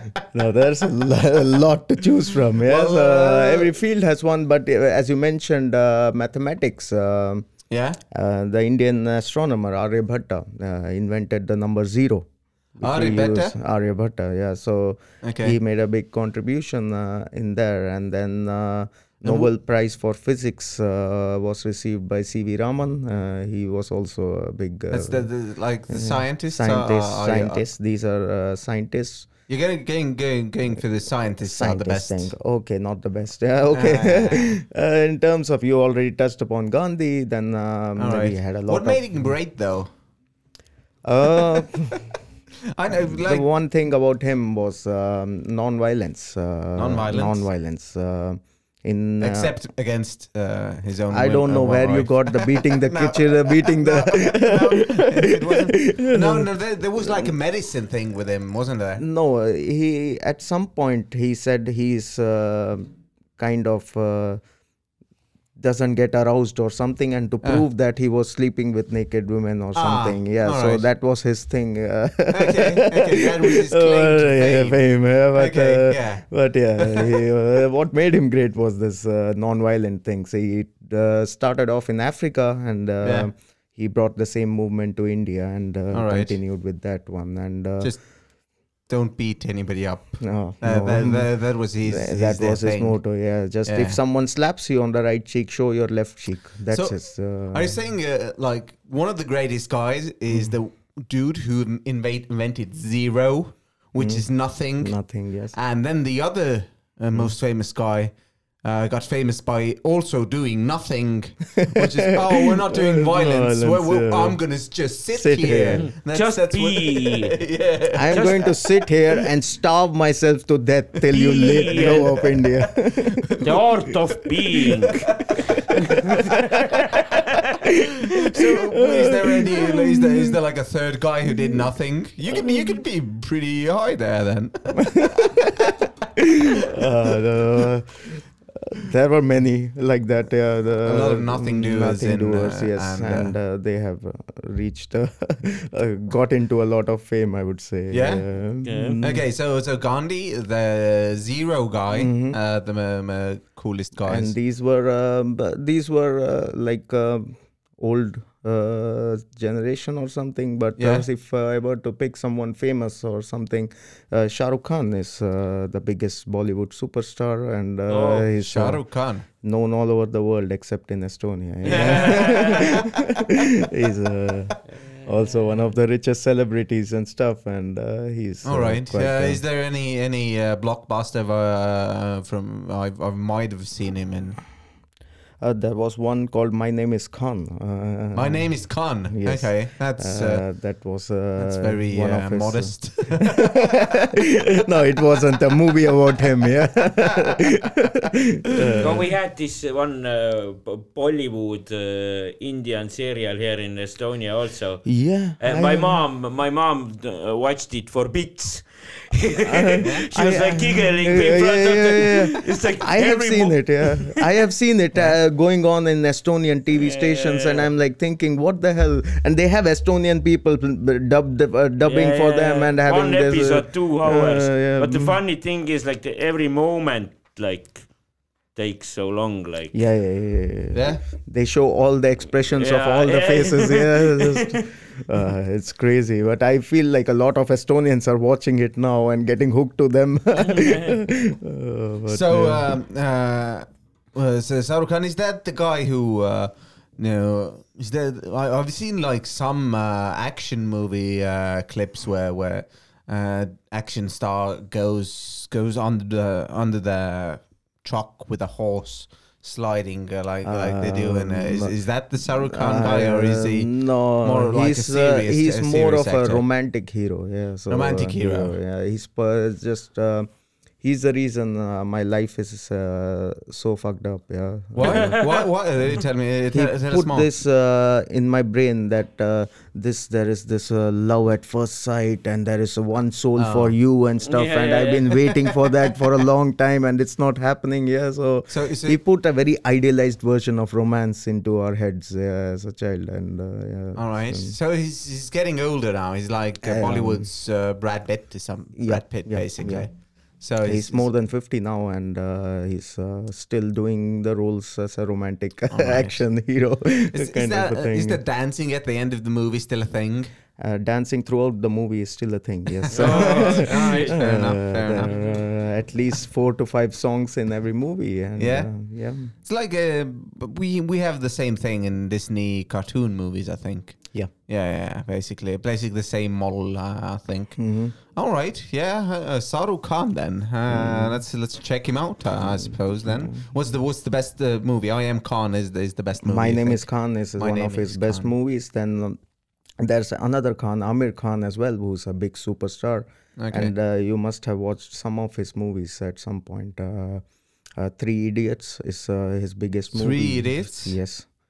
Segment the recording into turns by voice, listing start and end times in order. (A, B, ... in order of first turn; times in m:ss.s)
0:00.3-0:07.5 A
0:02.7-0:03.7 B
0:07.7-0:08.0 B
0:08.1-0:25.3 A
0:12.8-0:13.6 B
0:15.2-0:15.6 B
0:19.2-0:19.5 B
0:24.9-0:27.6 B
0:25.9-0:29.3 A
0:29.5-0:32.3 B
0:31.4-0:39.4 A
0:33.7-0:34.5 B
0:38.0-0:39.9 B
0:41.0-0:42.0 A
0:42.7-0:43.5 B
0:42.9-0:49.6 A
0:46.8-0:47.5 B
0:49.2-0:59.0 B
0:51.1-0:56.5 A
0:57.0-0:57.3 A
0:59.0-1:04.4 A
1:05.6-1:27.9 A
1:09.8-1:10.9 B
1:12.3-1:16.3 B
1:16.8-1:17.2 B
1:23.0-1:23.3 B
1:25.9-1:26.4 B
1:27.8-1:28.1 B
1:28.8-1:34.0 B
1:30.2-1:37.8 A
1:36.7-1:58.5 B
1:40.3-1:40.6 A
1:44.0-1:45.6 A
1:51.7-1:55.9 A
1:55.8-1:57.4 C
1:57.9-2:03.4 A
1:58.1-1:58.5 C
2:01.1-2:02.2 C
2:01.7-2:02.0 B
2:03.2-2:03.6 B
2:03.4-2:05.3 C
2:05.9-2:06.3 B
2:06.0-2:10.3 A
2:06.1-2:06.9 C
2:08.2-2:15.9 B
2:12.3-2:12.8 A
2:16.7-2:29.3 A
2:20.8-2:23.4 B
2:27.9-2:28.3 B
2:28.6-2:29.0 C
2:29.0-2:34.4 B
2:31.9-2:32.4 A
2:34.1-2:59.4 A
2:40.8-2:41.0 B
2:47.9-2:48.3 C
2:48.4-2:49.3 B
2:51.7-2:52.6 C
2:51.7-2:52.8 B
2:58.4-3:04.4 B
3:05.4-3:19.1 A
3:08.2-3:10.5 B
3:11.4-3:13.6 B
3:18.8-3:34.2 C
3:24.8-3:26.0 A
3:29.4-3:45.2 A
3:29.8-3:30.1 B
3:36.7-3:37.7 C
3:41.8-3:47.9 C
3:48.5-3:49.8 C
3:49.7-4:02.7 A
3:50.7-3:51.0 B
3:52.6-3:54.6 C
4:02.1-4:26.4 B
4:20.4-4:35.2 A
4:27.7-4:28.6 B
4:34.8-4:37.3 B
4:34.8-4:35.3 C
4:36.5-4:54.6 A
4:43.4-4:43.8 B
4:44.3-4:45.1 C
4:48.5-4:49.0 B
4:54.0-5:01.1 B
4:56.6-4:57.3 A
4:58.8-5:08.2 A
5:05.7-5:06.3 B
5:07.1-5:10.3 B
5:10.6-5:19.3 A
5:12.9-5:15.1 B
5:12.9-5:14.2 C
5:18.4-5:38.3 B
5:27.6-5:28.0 A
5:30.7-5:31.2 A
5:32.5-5:33.5 A
5:36.2-5:39.2 A
5:39.8-5:47.2 A
5:43.4-5:43.7 B
5:47.8-5:51.3 A
5:49.9-5:51.0 B